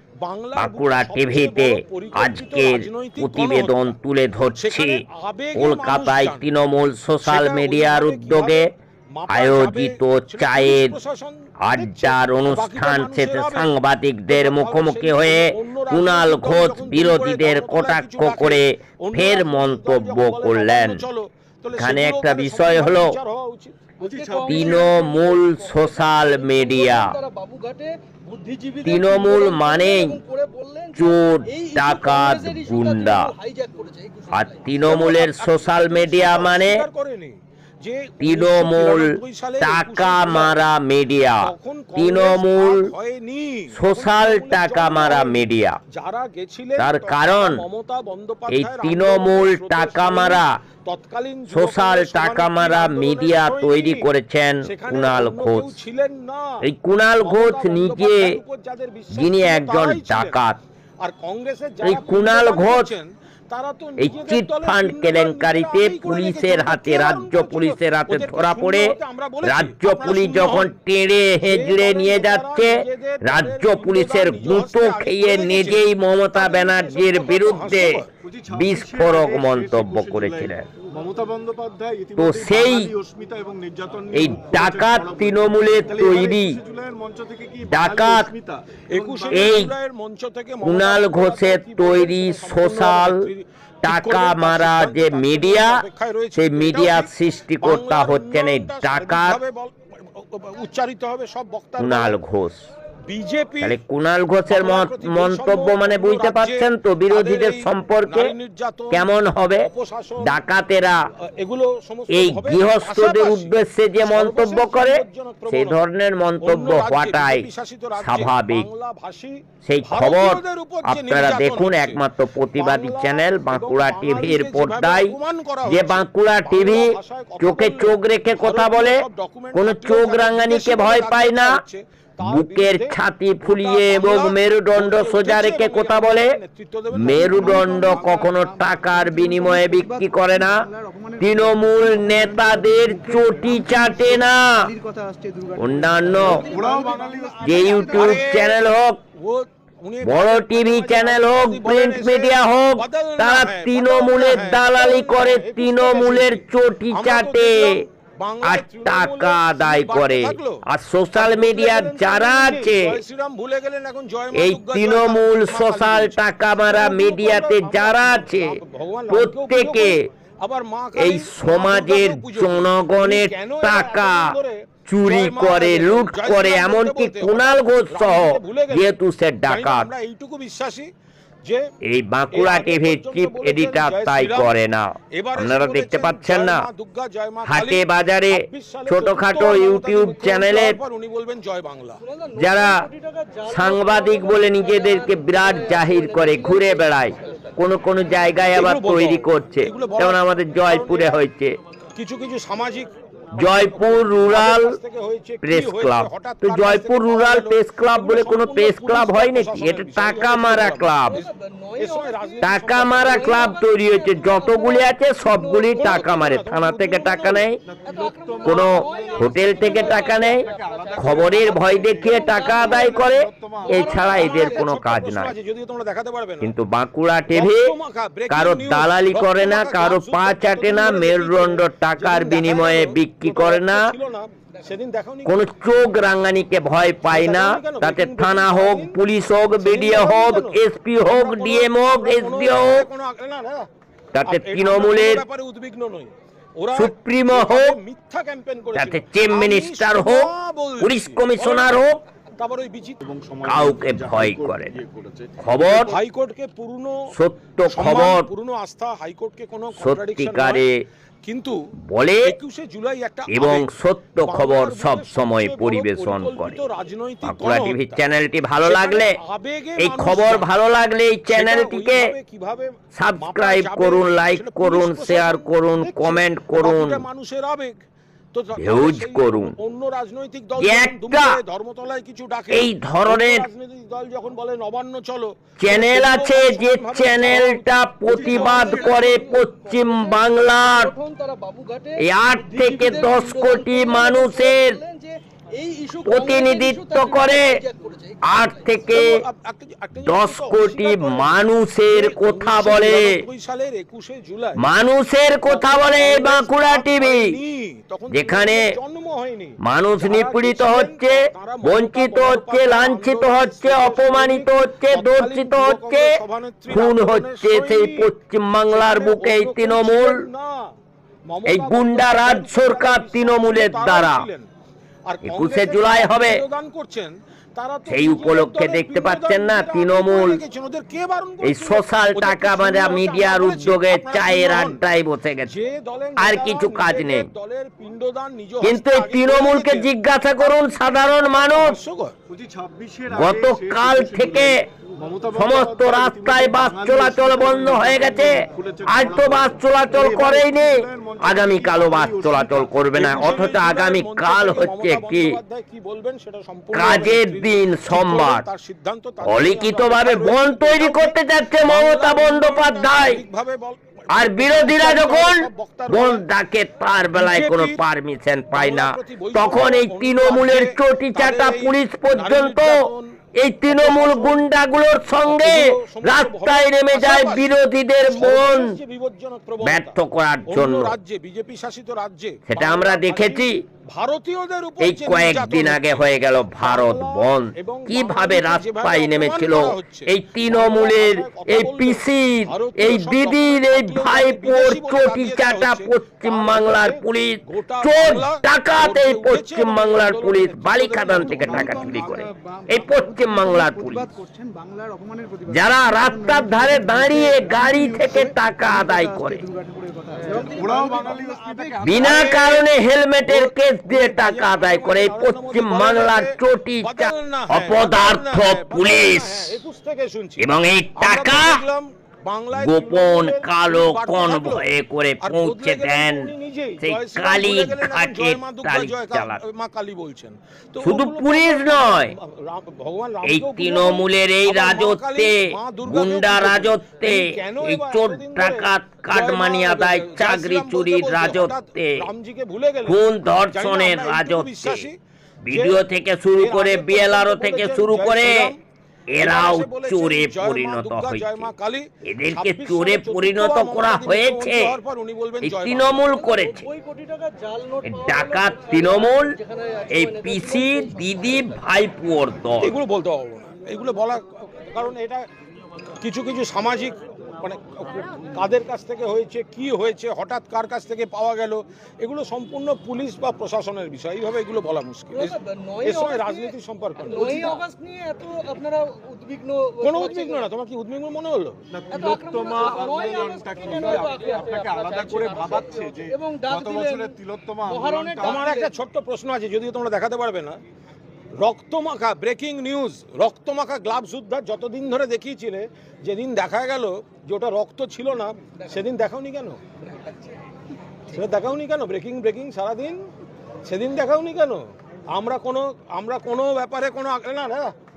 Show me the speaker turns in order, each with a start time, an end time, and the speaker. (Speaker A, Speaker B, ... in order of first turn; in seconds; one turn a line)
Speaker A: 0.2-4.0
Speaker B: 0.6-5.0
Speaker A: 4.6-6.5
Speaker B: 5.5-8.7
Speaker A: 7.2-13.7
Speaker B: 9.3-10.9
Speaker B: 11.6-21.0
Speaker A: 14.3-23.8
Speaker B: 21.8-23.1
Speaker C: 24.0-25.0
Speaker D: 24.0-34.7
Speaker B: 24.5-27.1
Speaker B: 28.8-30.2
Speaker B: 30.9-33.3
Speaker B: 34.3-36.8
Speaker A: 34.8-40.6
Speaker B: 38.2-42.9
Speaker A: 41.4-54.1
Speaker B: 43.7-45.8
Speaker B: 46.8-47.6
Speaker B: 48.5-50.5
Speaker B: 51.5-55.8
Speaker A: 54.6-56.6
Speaker B: 56.6-58.4
Speaker A: 57.2-60.4
Speaker B: 59.1-60.6
Speaker A: 61.0-70.8
Speaker B: 61.8-62.9
Speaker B: 64.0-78.0
Speaker A: 71.4-78.1
Speaker C: 78.2-89.6
Speaker B: 78.5-80.7
Speaker B: 82.2-82.9
Speaker B: 84.1-86.6
Speaker B: 87.7-88.3
Speaker A: 88.9-97.1
Speaker B: 89.3-89.7
Speaker B: 90.6-93.3
Speaker B: 93.8-95.8
Speaker B: 96.3-99.4
Speaker A: 97.6-102.2
Speaker B: 101.8-102.7
Speaker A: 103.1-103.8
Speaker B: 103.6-108.3
Speaker A: 104.5-110.4
Speaker B: 108.9-109.7
Speaker B: 110.2-111.0
Speaker A: 111.2-115.8
Speaker B: 112.1-118.7
Speaker A: 116.4-122.0
Speaker B: 119.6-129.0
Speaker A: 122.5-138.2
Speaker B: 129.5-131.6
Speaker B: 132.2-136.4
Speaker B: 136.9-140.7
Speaker E: 137.1-148.0
Speaker B: 141.2-144.7
Speaker B: 145.6-146.4
Speaker D: 146.1-148.1
Speaker C: 146.3-148.2
Speaker B: 147.4-149.0
Speaker A: 147.9-160.6
Speaker B: 150.0-157.8
Speaker B: 158.4-163.0
Speaker A: 161.1-178.9
Speaker B: 164.3-168.6
Speaker B: 169.1-169.9
Speaker B: 170.9-174.3
Speaker B: 174.8-179.9
Speaker A: 179.5-180.9
Speaker B: 181.8-186.7
Speaker A: 182.3-184.5
Speaker A: 185.1-192.0
Speaker B: 187.4-190.8
Speaker D: 192.0-197.5
Speaker B: 192.4-192.8
Speaker B: 193.5-201.6
Speaker A: 198.5-201.2
Speaker A: 201.9-211.3
Speaker B: 203.4-204.8
Speaker B: 205.4-211.2
Speaker D: 211.1-216.0
Speaker A: 211.8-213.4
Speaker B: 212.4-217.6
Speaker A: 215.8-217.5
Speaker C: 217.6-224.5
Speaker D: 217.8-224.7
Speaker B: 218.4-220.4
Speaker B: 220.9-225.3
Speaker A: 223.7-226.5
Speaker B: 226.4-227.7
Speaker A: 227.3-235.4
Speaker B: 228.3-233.8
Speaker B: 235.2-242.8
Speaker A: 237.1-238.9
Speaker A: 239.6-243.7
Speaker B: 244.1-245.2
Speaker A: 244.2-251.9
Speaker B: 246.7-247.8
Speaker B: 248.7-250.3
Speaker B: 250.8-252.0
Speaker A: 252.4-253.1
Speaker C: 253.0-255.4
Speaker B: 253.4-254.8
Speaker B: 255.4-255.9
Speaker A: 255.6-257.1
Speaker B: 257.1-258.3
Speaker A: 257.6-260.6
Speaker B: 259.7-260.8
Speaker A: 261.2-261.6
Speaker B: 261.9-262.3
Speaker A: 262.2-263.7
Speaker B: 263.3-266.6
Speaker A: 264.2-268.0
Speaker B: 267.2-269.1
Speaker A: 268.6-270.5
Speaker B: 269.8-272.1
Speaker A: 271.3-277.8
Speaker B: 272.9-277.0
Speaker A: 278.3-289.4
Speaker B: 278.6-279.5
Speaker B: 280.6-281.3
Speaker B: 282.5-283.4
Speaker B: 285.6-290.9
Speaker D: 288.1-298.7
Speaker B: 292.0-294.8
Speaker B: 296.0-297.5
Speaker B: 298.2-299.2
Speaker A: 298.9-304.6
Speaker B: 300.0-303.1
Speaker B: 304.6-307.3
Speaker A: 305.4-318.1
Speaker B: 308.1-308.7
Speaker B: 309.6-316.1
Speaker B: 316.7-320.2
Speaker A: 318.7-320.7
Speaker A: 321.3-324.5
Speaker B: 321.5-324.3
Speaker A: 325.1-334.8
Speaker B: 325.2-326.4
Speaker B: 327.9-330.4
Speaker B: 331.4-335.5
Speaker A: 335.4-342.1
Speaker B: 336.2-337.3
Speaker B: 338.6-341.8
Speaker C: 342.3-352.7
Speaker B: 343.1-344.6
Speaker B: 345.3-355.4
Speaker A: 352.9-366.2
Speaker B: 356.7-358.4
Speaker B: 359.2-363.2
Speaker B: 364.1-372.8
Speaker A: 367.1-367.8
Speaker A: 368.5-373.1
Speaker B: 373.4-378.7
Speaker A: 373.7-374.4
Speaker A: 375.2-377.5
Speaker A: 378.1-380.0
Speaker B: 379.6-380.9
Speaker A: 380.5-402.1
Speaker B: 382.5-383.6
Speaker B: 384.8-404.1
Speaker E: 401.4-412.1
Speaker B: 405.5-409.4
Speaker A: 410.3-412.7
Speaker C: 410.4-412.4
Speaker B: 411.8-419.6
Speaker A: 413.2-424.7
Speaker B: 420.4-421.6
Speaker B: 422.5-429.4
Speaker A: 425.2-445.0
Speaker B: 430.8-432.1
Speaker B: 433.2-442.1
Speaker B: 442.9-444.9
Speaker B: 445.4-448.5
Speaker A: 445.5-445.8
Speaker A: 446.4-448.6
Speaker B: 449.1-451.5
Speaker A: 449.2-456.1
Speaker B: 452.1-454.7
Speaker B: 455.4-456.7
Speaker D: 456.1-461.6
Speaker B: 457.8-459.3
Speaker B: 459.9-462.7
Speaker A: 462.6-465.2
Speaker A: 466.0-477.6
Speaker D: 475.1-480.5
Speaker A: 479.8-481.6
Speaker C: 481.7-488.5
Speaker D: 481.9-488.7
Speaker A: 488.2-490.6
Speaker A: 491.4-499.6
Speaker A: 501.1-503.0
Speaker A: 503.6-507.7